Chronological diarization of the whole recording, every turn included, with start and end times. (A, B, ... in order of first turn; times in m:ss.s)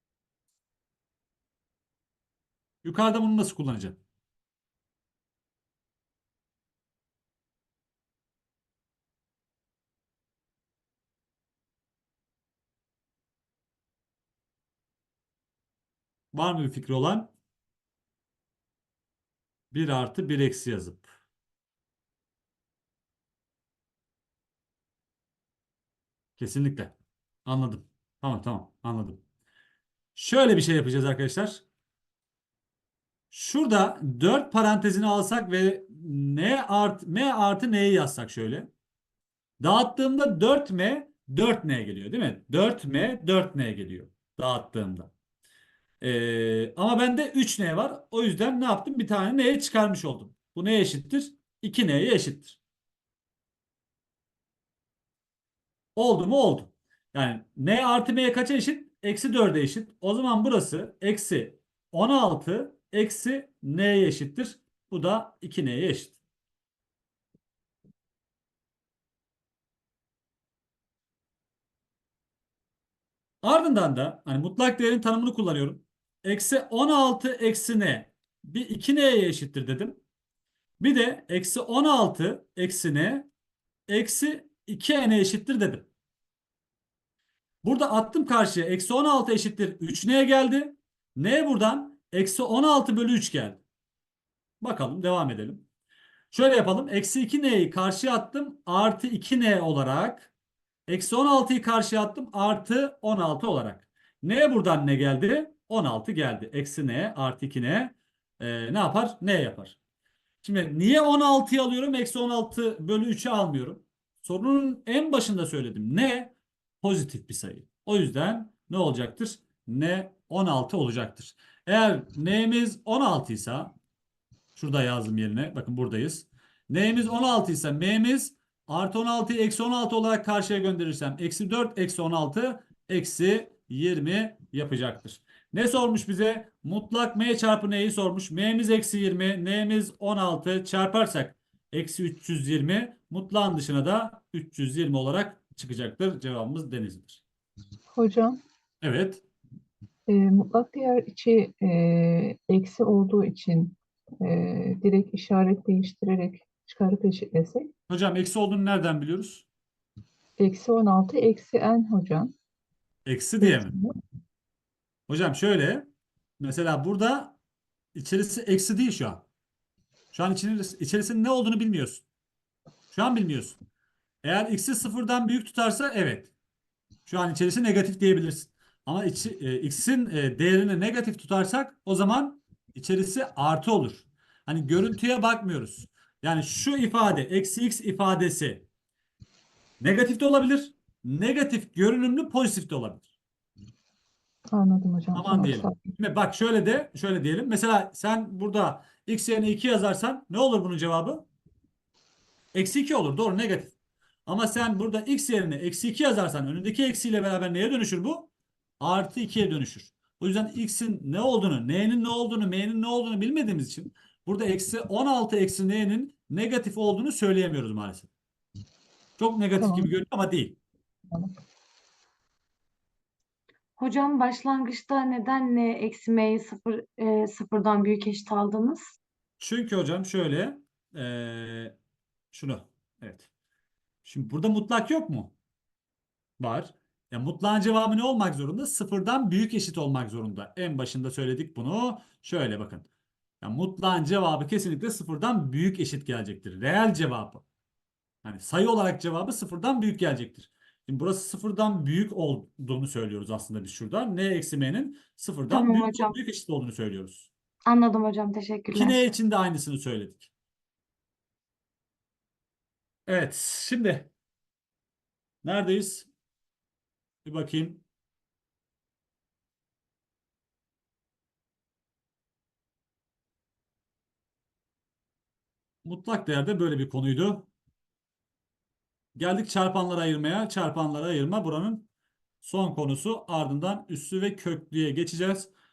0:02.8-0:04.0 A
0:16.3-0:17.3 A
0:19.7-0:21.1 A
0:26.4-0:26.9 A
0:27.4-0:29.2 A
0:30.1-0:31.6 A
0:33.3-0:38.7 A
0:39.6-0:45.1 A
0:46.0-0:52.6 A
0:56.0-1:06.2 A
1:13.4-1:20.0 A
1:20.8-1:23.3 A
1:23.9-1:25.9 A
1:27.6-1:33.6 A
1:34.6-1:35.6 A
1:36.3-1:40.3 A
1:40.9-1:49.8 A
1:50.4-2:03.7 A
2:04.5-2:27.2 A
2:27.9-2:28.4 B
2:28.8-2:29.2 A
2:30.1-2:37.7 B
2:37.9-2:39.4 A
2:40.4-2:42.3 B
2:43.0-2:43.8 A
2:43.4-2:43.9 B
2:45.1-2:45.9 A
2:46.4-2:47.3 A
2:47.9-2:49.2 A
2:50.1-2:52.0 A
2:52.9-2:53.6 A
2:54.2-2:56.3 A
2:57.0-3:08.6 A
3:09.8-3:13.1 A
3:14.5-3:15.9 B
3:15.1-3:21.2 A
3:22.5-3:23.7 A
3:24.2-3:38.1 A
3:39.2-3:40.6 A
3:39.6-3:39.9 B
3:43.8-3:49.0 C
3:49.4-3:51.7 A
3:52.3-3:53.3 A
3:54.0-3:55.3 A
3:56.4-4:02.8 A
4:03.4-4:07.4 A
4:08.2-4:17.3 A
4:15.5-4:16.2 C
4:17.7-4:19.1 C
4:18.7-4:20.3 A
4:23.1-4:24.1 A
4:25.4-4:26.1 A
4:27.2-4:27.8 A
4:35.8-4:37.5 A
4:39.2-4:41.9 A
4:42.4-4:45.5 A